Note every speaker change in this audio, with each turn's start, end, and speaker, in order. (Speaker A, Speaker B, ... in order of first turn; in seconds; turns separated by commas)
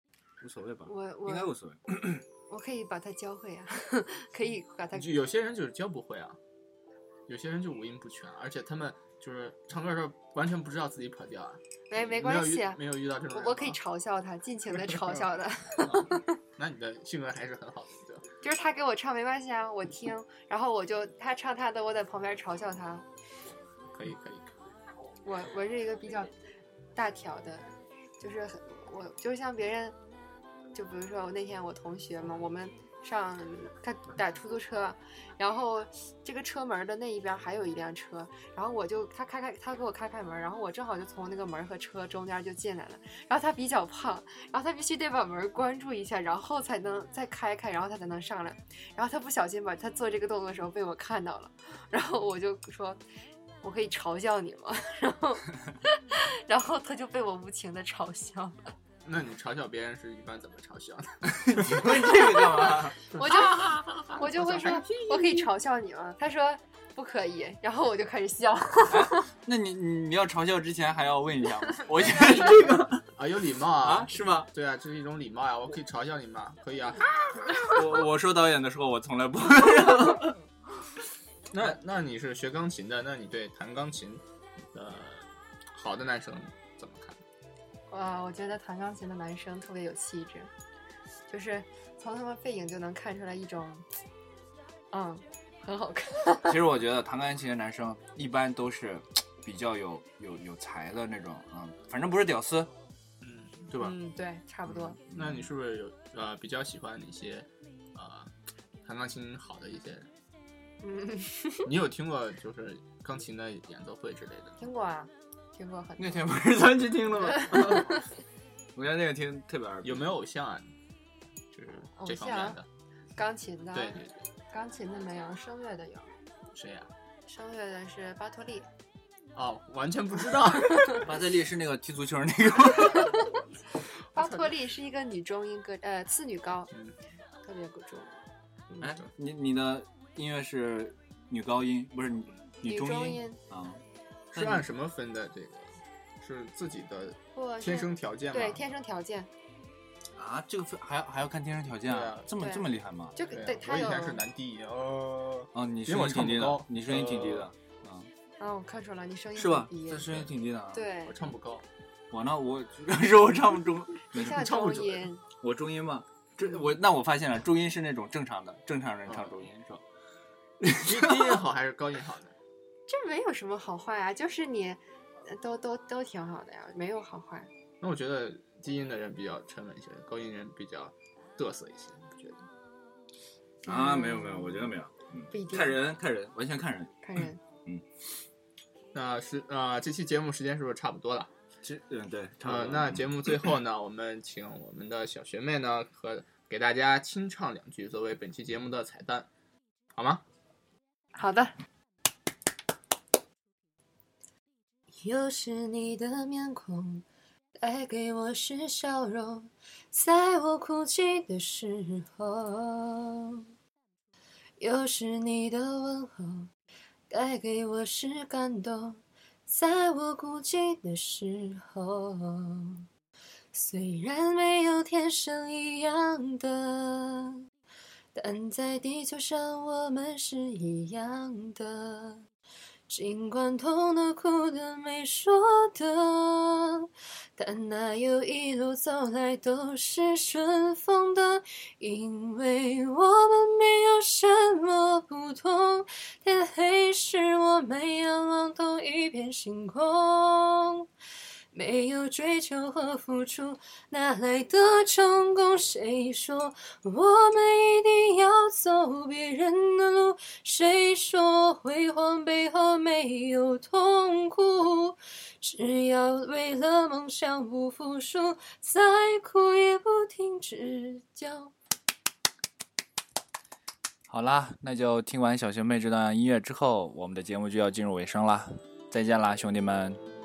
Speaker A: 0.4-2.2, Speaker B: 0.9-1.5, Speaker B: 2.5-5.2, Speaker C: 4.9-6.4, Speaker C: 7.3-13.8, Speaker B: 11.9-16.4, Speaker C: 15.8-18.2, Speaker B: 18.4-23.1, Speaker C: 23.9-24.5, Speaker B: 25.2-26.3, Speaker B: 26.9-27.7, Speaker B: 28.2-30.0, Speaker B: 30.7-53.0, Speaker B: 53.6-58.6, Speaker C: 59.0-65.4, Speaker A: 61.3-63.1, Speaker B: 62.3-69.3, Speaker A: 68.9-73.1, Speaker C: 73.2-77.7, Speaker A: 73.8-74.5, Speaker A: 77.5-80.4, Speaker C: 81.5-84.2, Speaker C: 84.7-87.2, Speaker B: 87.9-90.5, Speaker B: 91.3-93.8, Speaker B: 94.9-96.6, Speaker A: 96.4-102.7, Speaker C: 103.2-103.7, Speaker B: 103.7-105.0, Speaker A: 104.7-105.5, Speaker C: 105.1-108.3, Speaker C: 108.8-110.1, Speaker B: 110.8-111.7, Speaker C: 111.6-114.6, Speaker B: 114.6-116.3, Speaker A: 116.0-118.0, Speaker B: 117.5-118.0, Speaker A: 118.8-120.1, Speaker C: 119.8-120.7, Speaker C: 121.5-122.7, Speaker B: 122.0-122.6, Speaker B: 123.2-126.1, Speaker C: 123.7-124.2, Speaker C: 126.5-126.9, Speaker B: 127.3-128.7, Speaker C: 129.3-131.1, Speaker A: 130.9-133.2, Speaker B: 134.1-136.7, Speaker C: 134.2-134.5, Speaker B: 137.4-139.0, Speaker A: 138.8-143.8, Speaker B: 142.6-143.4, Speaker C: 144.3-148.6, Speaker A: 144.3-144.7, Speaker B: 147.3-149.3, Speaker A: 150.2-153.2, Speaker C: 151.9-152.2, Speaker B: 152.3-154.2, Speaker C: 153.3-157.5, Speaker A: 155.5-158.1, Speaker B: 158.4-160.2, Speaker A: 159.4-160.9, Speaker B: 160.7-161.1, Speaker C: 161.1-161.7, Speaker A: 162.1-164.5, Speaker B: 164.1-165.2, Speaker C: 164.3-165.1, Speaker A: 165.3-169.8, Speaker C: 169.1-169.4, Speaker A: 170.6-171.4, Speaker C: 170.7-172.3, Speaker B: 172.9-177.5, Speaker C: 177.8-182.4, Speaker B: 183.7-184.7, Speaker A: 183.7-187.8, Speaker B: 185.3-185.8, Speaker B: 187.0-187.4, Speaker C: 188.9-191.3, Speaker A: 191.6-193.1, Speaker C: 192.4-199.3, Speaker C: 199.9-200.2, Speaker B: 201.2-201.6, Speaker B: 205.0-207.1, Speaker B: 207.6-213.4, Speaker B: 214.6-216.5, Speaker B: 217.1-222.9, Speaker B: 223.5-227.4, Speaker B: 228.1-232.2, Speaker B: 232.9-250.9, Speaker B: 251.5-271.5, Speaker A: 274.1-280.0